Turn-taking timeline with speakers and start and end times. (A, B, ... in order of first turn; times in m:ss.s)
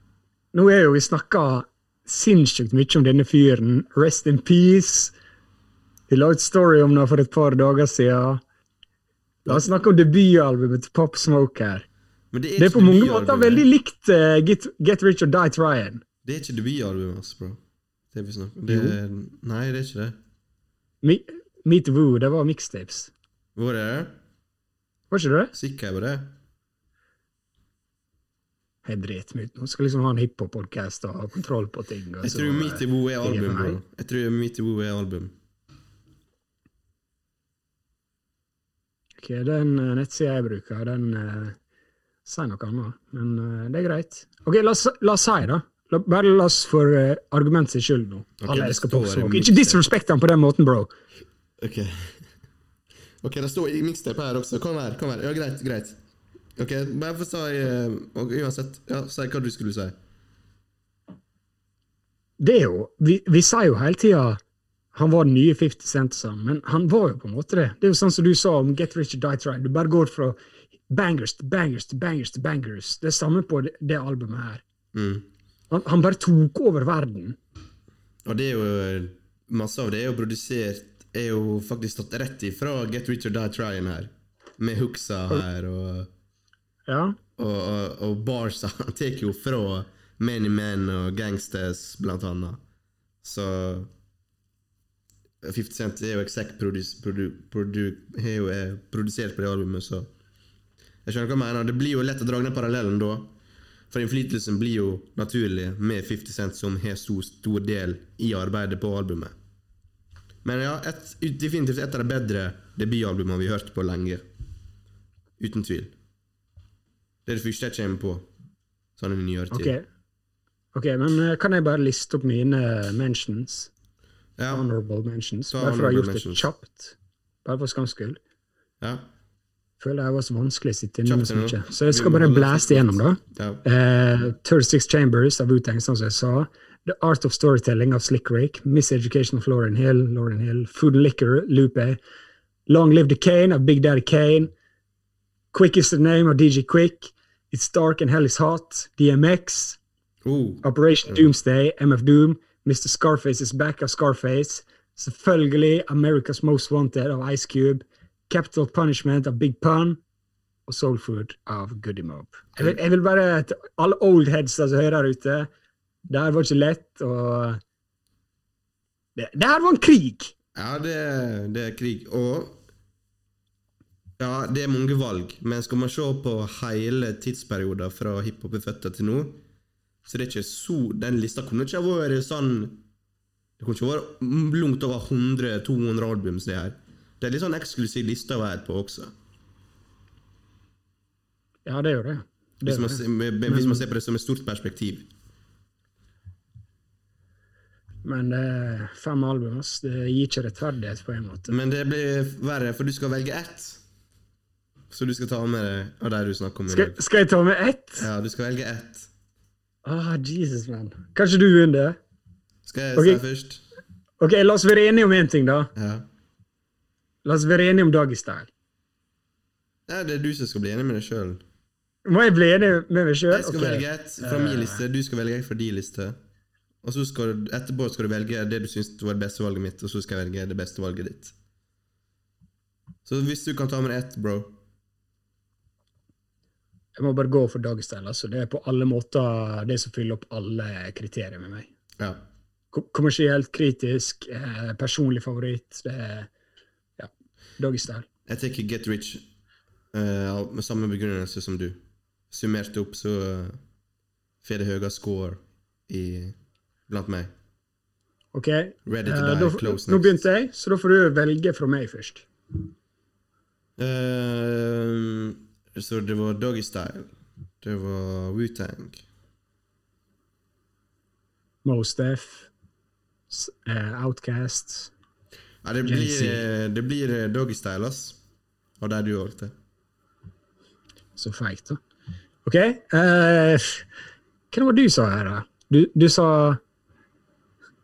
0:00.5-0:05.1 A
0:06.1-0:08.4 A
0:09.4-0:11.9 A
0:12.3-0:13.7 B
0:12.6-0:16.0 A
0:16.2-0:17.6 B
0:18.1-0:20.2 B
0:18.7-0:19.0 A
0:21.0-0:23.1 A
0:23.6-0:24.2 B
0:25.1-0:25.5 A
0:25.5-0:26.3 B
0:28.8-0:33.8 A
0:32.2-0:35.3 B
0:39.2-0:41.6 A
0:42.3-0:50.9 A
0:48.4-0:49.8 B
0:51.6-0:52.3 B
0:53.2-0:56.0 B
0:56.6-1:00.0 B
1:02.4-1:04.4 A
1:04.9-1:10.4 A
1:10.9-1:14.6 A
1:14.9-1:15.3 B
1:15.7-1:17.4 A
1:18.2-1:26.1 B
1:26.9-1:27.2 A
1:27.4-1:32.6 B
1:33.2-1:33.9 B
1:35.4-1:40.1 B
1:41.0-1:43.3 B
1:43.9-1:49.4 B
1:50.4-1:54.2 B
1:55.4-1:55.9 B
1:57.3-1:58.3 B
1:59.0-1:59.7 B
1:59.5-1:59.8 A
2:00.7-2:03.7 A
2:04.4-2:04.7 B
2:04.5-2:08.2 A
2:05.5-2:06.5 B
2:08.8-2:09.1 B
2:09.8-2:22.0 A
2:11.0-2:13.6 B
2:22.7-2:24.5 A
2:25.5-2:29.8 A
2:30.2-2:31.3 B
2:30.6-2:40.0 A
2:40.7-2:45.5 A
2:46.1-2:47.6 A
2:49.2-2:50.3 A
2:50.6-2:52.6 B
2:54.2-2:59.4 B
3:00.0-3:02.8 B
3:03.6-3:09.1 B
3:11.7-3:13.8 A
3:12.6-3:15.1 B
3:18.0-3:21.5 A
3:21.5-3:23.8 B
3:24.9-3:27.0 B
3:26.7-3:28.1 A
3:28.0-3:29.1 B
3:29.8-3:32.0 A
3:32.6-3:33.6 B
3:33.0-3:33.2 A
3:34.2-3:35.7 A
3:35.8-3:36.1 B
3:37.2-3:38.5 A
3:39.9-3:41.4 B
3:42.1-3:44.8 A
3:43.3-3:46.2 B
3:46.8-3:51.3 B
3:53.1-3:54.6 B
3:57.0-4:01.7 A
4:02.7-4:06.3 A
4:07.0-4:08.1 A
4:08.3-4:09.2 B
4:09.9-4:13.6 B
4:14.4-4:16.4 B
4:16.9-4:17.3 B
4:18.3-4:22.3 A
4:18.9-4:20.2 B
4:23.8-4:29.0 B
4:31.6-4:32.5 A
4:33.3-4:34.9 A
4:35.6-4:38.2 B
4:35.9-4:36.5 A
4:38.8-4:39.5 B
4:41.2-4:41.8 A
4:42.4-4:43.8 A
4:44.5-4:46.6 A